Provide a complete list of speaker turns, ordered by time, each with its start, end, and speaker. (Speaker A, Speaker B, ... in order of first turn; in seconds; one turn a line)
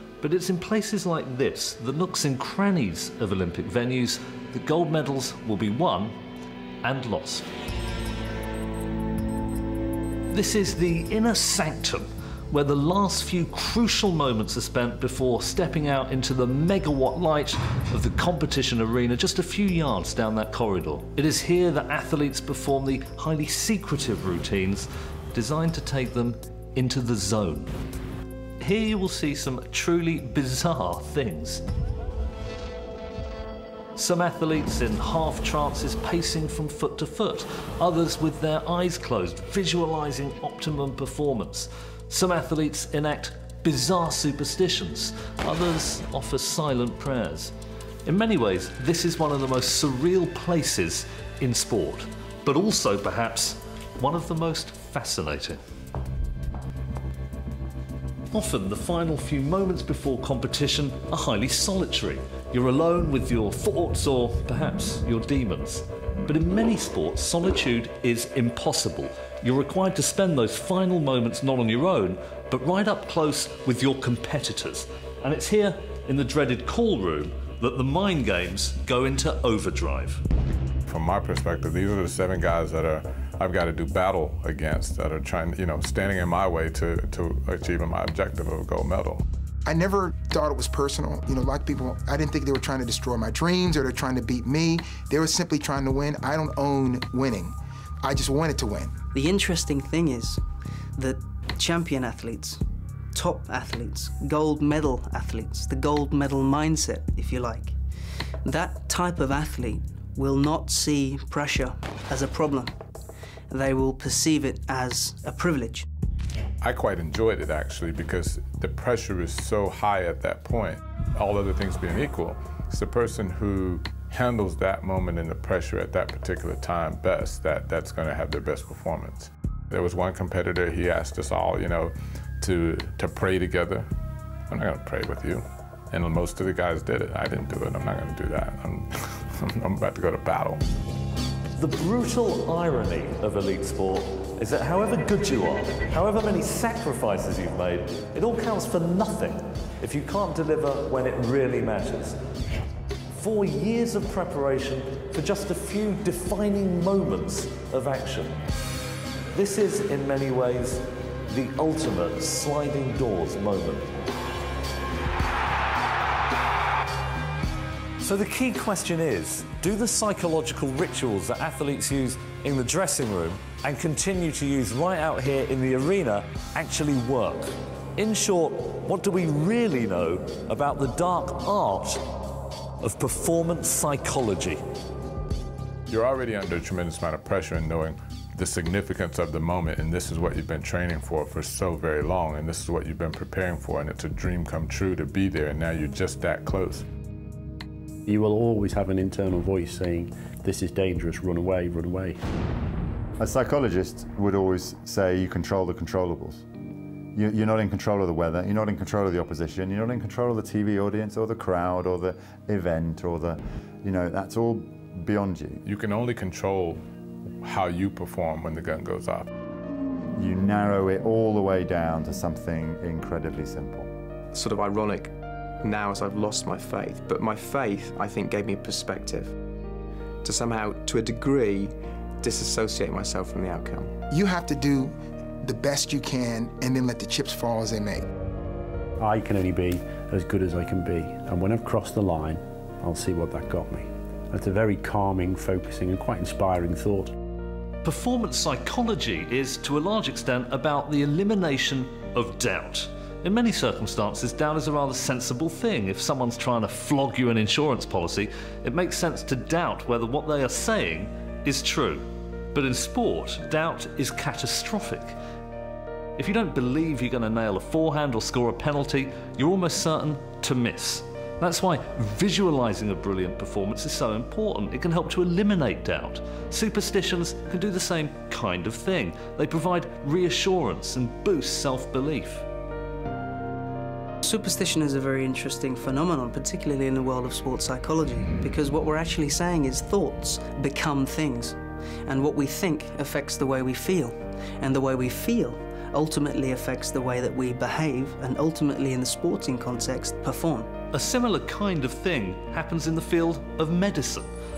Speaker A: 0.2-6.2
Speaker A: 6.8-7.5
Speaker A: 10.3-27.7
Speaker A: 28.6-31.6
Speaker A: 34.0-47.5
Speaker A: 48.1-55.6
Speaker A: 58.3-80.2
Speaker B: 80.9-89.2
Speaker C: 89.7-99.0
Speaker D: 99.1-100.4
Speaker D: 101.0-102.6
Speaker D: 103.1-107.8
Speaker D: 108.4-112.8
Speaker D: 113.5-115.9
Speaker B: 116.6-133.9
Speaker B: 134.5-140.6
Speaker A: 141.6-152.2
Speaker A: 153.1-158.4
Speaker A: 159.3-163.9
Speaker A: 168.0-182.0
Speaker A: 182.8-184.6
Speaker B: 185.9-196.9
Speaker E: 198.1-202.2
Speaker F: 203.2-206.4
Speaker F: 207.2-215.6
Speaker B: 215.6-216.8
Speaker B: 217.4-219.3
Speaker F: 220.2-223.9
Speaker G: 224.3-229.3
Speaker G: 230.2-234.0
Speaker C: 234.1-238.1
Speaker E: 239.0-247.1
Speaker A: 247.8-265.2
Speaker A: 266.2-282.5
Speaker D: 284.2-300.7
Speaker A: 300.9-304.3